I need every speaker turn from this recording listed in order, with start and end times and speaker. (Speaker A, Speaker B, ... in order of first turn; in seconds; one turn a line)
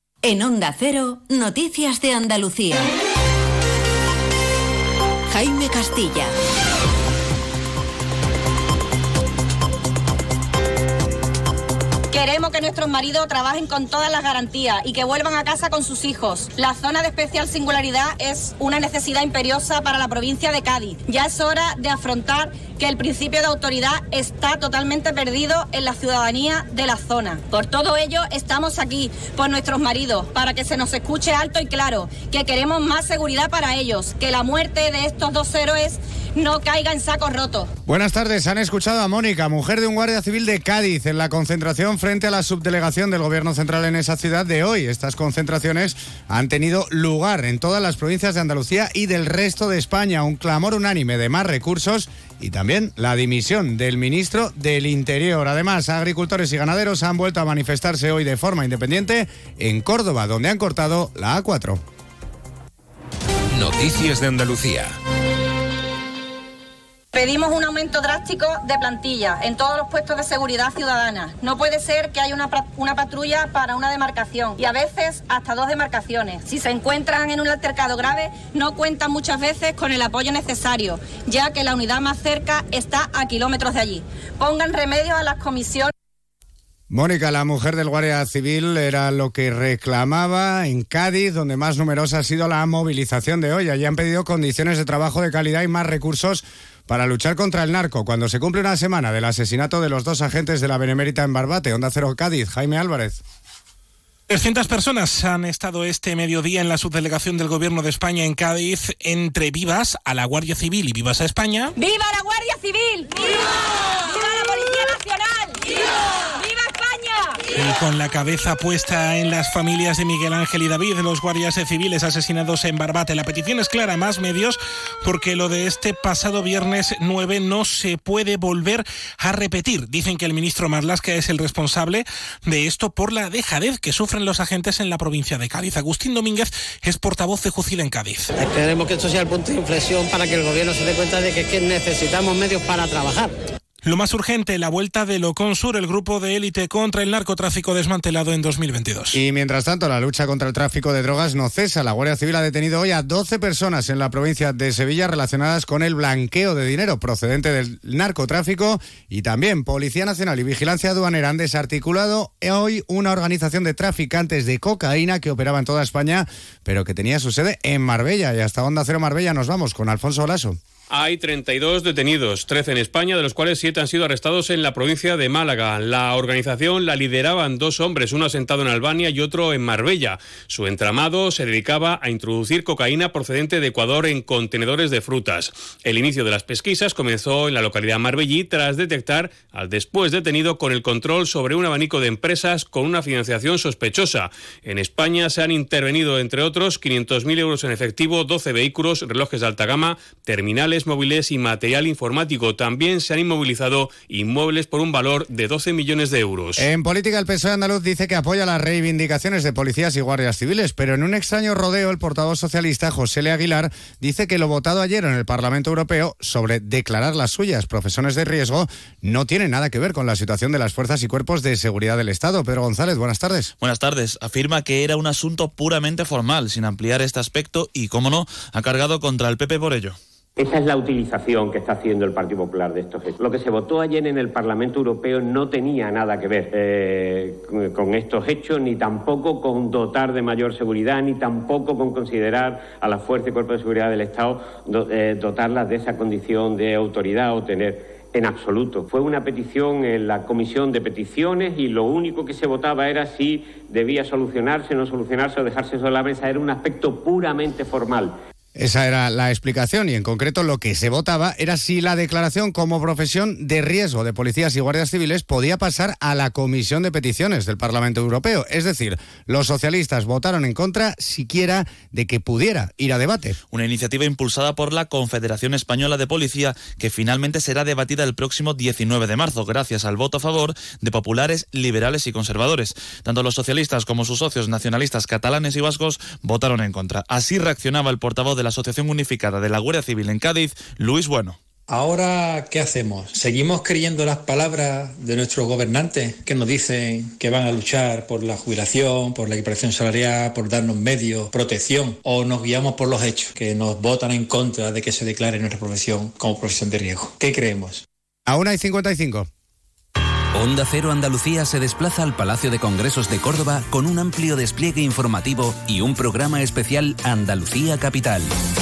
Speaker A: 0.2-2.8
Speaker A: 5.3-6.3
Speaker B: 12.1-37.7
Speaker C: 37.9-61.8
Speaker B: 67.1-85.9
Speaker C: 86.9-103.2
Speaker D: 104.3-111.7
Speaker B: 111.8-117.4
Speaker D: 117.5-138.3
Speaker E: 138.4-143.3
Speaker D: 143.8-149.2
Speaker C: 149.1-170.6
Speaker F: 170.9-206.7
Speaker C: 206.6-223.5
Speaker G: 223.6-230.0
Speaker H: 230.4-258.2
Speaker C: 258.6-273.4
Speaker G: 273.5-291.4
Speaker I: 291.7-307.8
Speaker C: 308.3-309.3
Speaker J: 310.3-318.3